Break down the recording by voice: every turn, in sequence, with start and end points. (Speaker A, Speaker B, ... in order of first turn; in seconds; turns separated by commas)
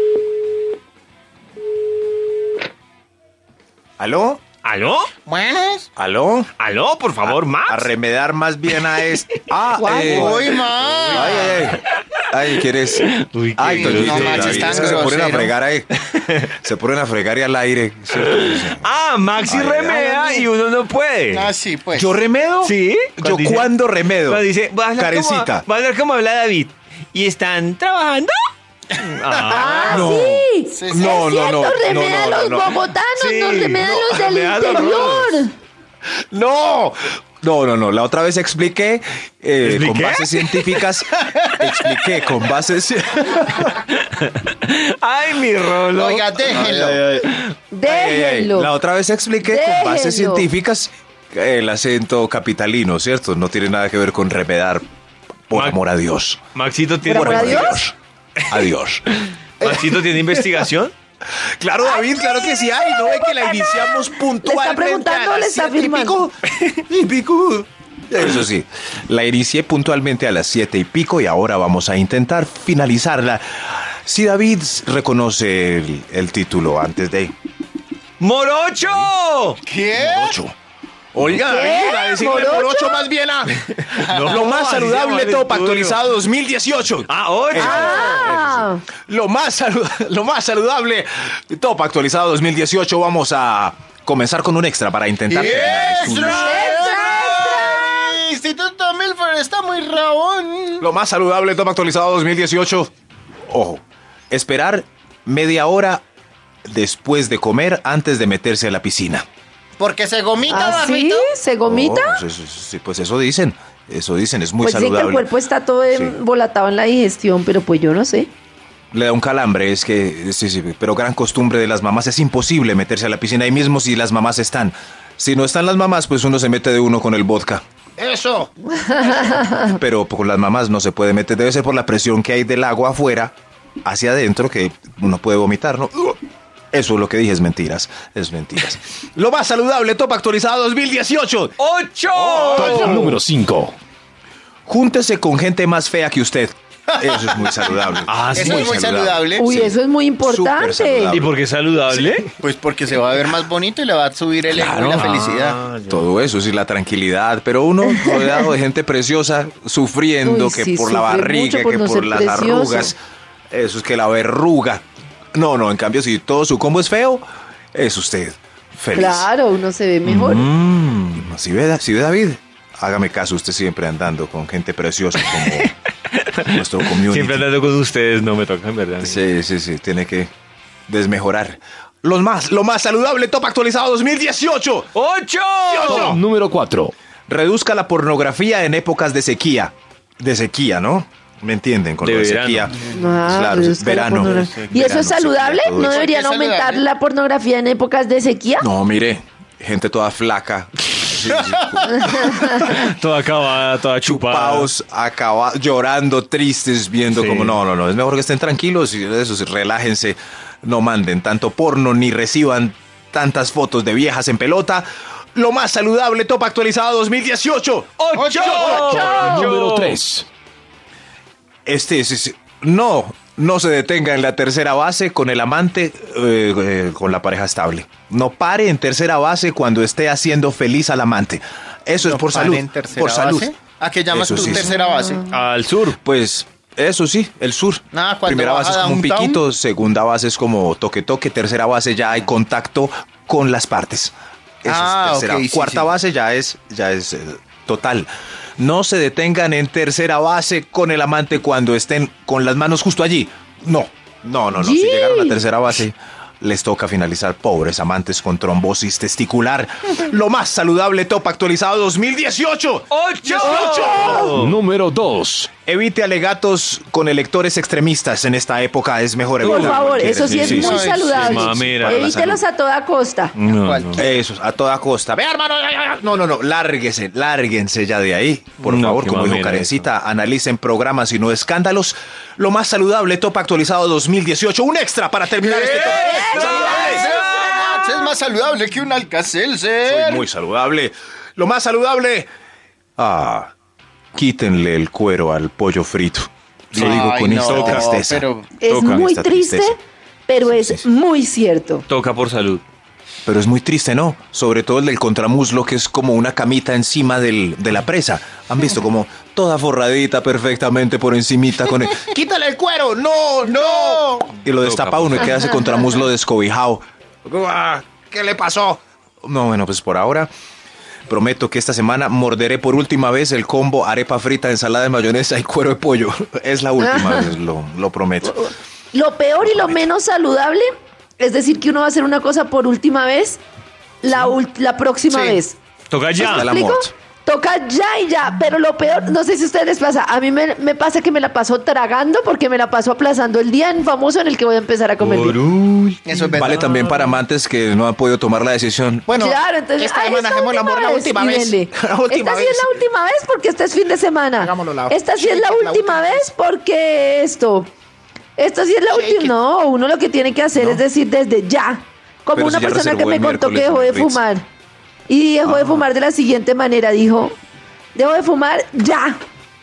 Speaker A: 4.0-4.4, Speaker B: 4.6-5.1, Speaker C: 5.3-5.9, Speaker A: 6.0-6.5, Speaker B: 6.6-7.9, Speaker A: 7.3-10.4, Speaker D: 9.7-10.6, Speaker C: 10.0-11.7, Speaker B: 10.0-11.8, Speaker A: 11.1-18.9, Speaker B: 12.9-15.1, Speaker C: 13.7-15.5, Speaker B: 18.2-21.5, Speaker A: 19.4-20.0, Speaker D: 19.9-20.4, Speaker C: 21.3-22.1, Speaker A: 21.9-24.4, Speaker B: 22.6-28.4, Speaker A: 24.9-25.6, Speaker B: 28.9-30.1, Speaker D: 29.5-35.5, Speaker A: 29.7-32.8, Speaker C: 30.7-31.2, Speaker B: 33.2-35.3, Speaker A: 33.8-35.3, Speaker A: 36.3-43.8, Speaker B: 39.6-40.8, Speaker C: 41.2-41.6, Speaker B: 43.9-47.5, Speaker C: 45.9-47.0, Speaker D: 47.7-48.7, Speaker A: 47.9-54.9, Speaker D: 49.4-50.5, Speaker A: 55.5-56.4, Speaker B: 55.5-55.8, Speaker B: 56.5-57.9, Speaker D: 57.1-57.8, Speaker A: 57.1-57.9, Speaker A: 58.5-59.0, Speaker A: 59.6-60.6, Speaker B: 59.6-60.9, Speaker A: 61.6-77.3, Speaker D: 61.9-66.3, Speaker B: 78.2-79.6, Speaker A: 78.8-79.1, Speaker C: 79.7-80.4, Speaker A: 80.0-80.5, Speaker A: 81.1-96.8, Speaker D: 81.4-83.1, Speaker B: 83.9-86.0, Speaker B: 87.1-88.3, Speaker D: 87.5-88.8, Speaker C: 95.3-100.8, Speaker D: 96.1-98.2, Speaker A: 100.8-102.9, Speaker A: 103.5-106.0, Speaker A: 106.7-109.2, Speaker C: 109.8-111.3, Speaker A: 110.5-110.8, Speaker D: 110.5-112.2, Speaker A: 111.7-115.3, Speaker D: 114.6-118.3, Speaker A: 115.9-116.2, Speaker A: 118.9-128.5, Speaker D: 128.8-129.7, Speaker A: 129.0-136.2, Speaker A: 136.7-141.6, Speaker B: 141.6-143.1, Speaker A: 142.1-143.2, Speaker E: 142.6-143.8, Speaker A: 144.7-149.2, Speaker C: 147.0-147.7, Speaker B: 148.1-148.8, Speaker C: 148.3-149.8, Speaker D: 149.4-151.2, Speaker A: 150.2-151.4, Speaker B: 151.1-152.3, Speaker C: 152.4-155.6, Speaker A: 154.5-155.3, Speaker B: 155.0-156.1, Speaker A: 155.9-163.0, Speaker D: 160.2-162.9, Speaker A: 163.5-164.8, Speaker A: 165.3-169.3, Speaker D: 168.9-170.5, Speaker A: 170.0-175.7, Speaker B: 176.2-179.2, Speaker A: 176.4-177.4, Speaker A: 179.0-180.3, Speaker A: 180.9-184.9, Speaker B: 184.9-186.1, Speaker A: 185.7-186.2, Speaker E: 185.8-186.9, Speaker A: 187.3-196.0, Speaker B: 192.0-192.7, Speaker D: 192.9-198.7, Speaker C: 194.2-194.8, Speaker C: 195.8-196.8, Speaker A: 198.6-202.8, Speaker C: 201.5-201.7, Speaker B: 202.6-204.7, Speaker A: 204.0-217.9, Speaker B: 207.1-207.6, Speaker B: 218.0-220.0, Speaker C: 218.2-219.0, Speaker D: 218.4-219.5, Speaker E: 218.7-220.3, Speaker A: 221.7-233.5, Speaker C: 232.0-235.3, Speaker A: 234.1-234.7, Speaker D: 234.6-235.0, Speaker B: 235.3-236.0, Speaker A: 236.0-264.3, Speaker C: 237.9-239.4, Speaker C: 244.7-245.9, Speaker D: 254.6-255.4, Speaker B: 262.9-264.6, Speaker D: 263.5-264.4, Speaker E: 264.3-265.5, Speaker A: 265.6-270.8, Speaker B: 269.4-272.0, Speaker D: 269.4-273.3, Speaker C: 270.3-272.1, Speaker A: 271.6-272.4, Speaker B: 273.4-274.1, Speaker C: 273.5-274.1, Speaker A: 274.0-287.2, Speaker B: 278.6-279.8, Speaker C: 285.4-290.2, Speaker B: 285.6-288.1, Speaker D: 286.1-287.1, Speaker A: 289.9-292.3, Speaker A: 293.0-293.5, Speaker A: 294.1-299.8, Speaker B: 296.7-297.9, Speaker C: 296.8-298.5, Speaker D: 298.6-301.9, Speaker B: 298.7-299.0, Speaker A: 300.4-300.9, Speaker B: 301.9-302.6, Speaker A: 303.2-320.3, Speaker C: 313.4-314.3, Speaker B: 314.4-315.4, Speaker A: 321.1-328.5, Speaker D: 326.8-327.3, Speaker D: 328.2-330.7, Speaker A: 329.4-329.8, Speaker D: 331.2-333.4, Speaker D: 334.0-335.6, Speaker C: 335.1-335.4, Speaker B: 335.9-336.5, Speaker A: 336.2-336.9, Speaker D: 336.2-345.4, Speaker B: 345.0-347.1, Speaker C: 346.1-346.8, Speaker A: 346.3-352.8, Speaker C: 349.1-349.4, Speaker D: 349.1-357.7, Speaker A: 354.4-356.3, Speaker D: 358.4-364.4, Speaker A: 358.9-359.3, Speaker A: 360.6-360.8, Speaker A: 362.3-364.2, Speaker D: 365.1-367.4, Speaker A: 365.4-365.8, Speaker D: 367.9-369.2